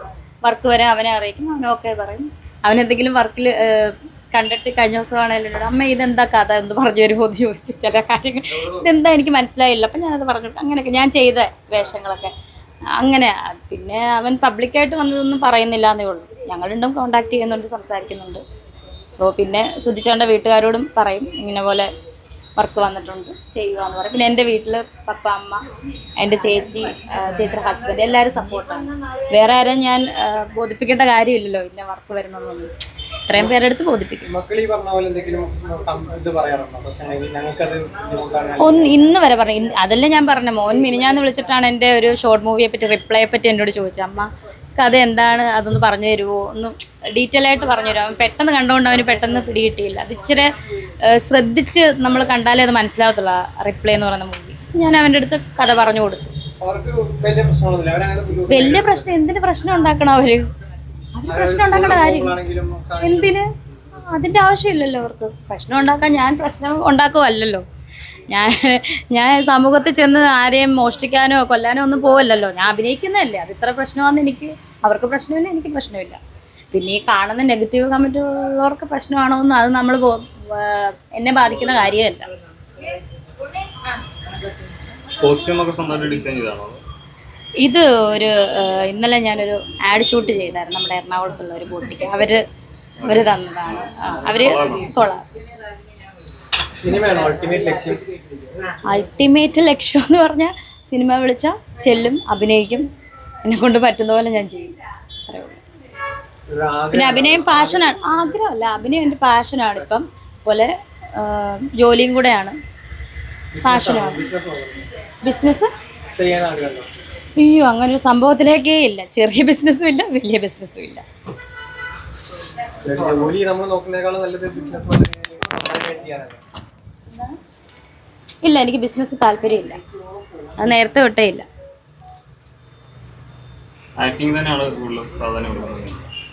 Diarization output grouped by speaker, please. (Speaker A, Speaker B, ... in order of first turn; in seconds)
Speaker A: 0.4-12.3, 13.0-18.4, 19.1-21.9, 22.6-25.6, 26.2-32.7, 33.3-34.3, 38.6-56.4, 58.5-60.5, 61.1-62.4, 63.0-63.5, 64.1-67.6, 68.3-76.2, 76.7-82.3, 87.6-92.4, 93.0-95.2, 98.8-102.9, 103.4-104.7, 105.3-105.6, 106.9-112.6, 113.6-114.3, 115.2-115.7, 117.4-121.0, 128.4-129.8, 130.6-131.5
Speaker B: 34.2-39.0, 56.6-59.1, 61.3-63.4, 96.8-98.0, 106.5-108.0, 113.5-114.8, 116.1-116.9, 122.8-126.4
Speaker C: 85.2-86.8, 93.0-94.9, 134.0-136.0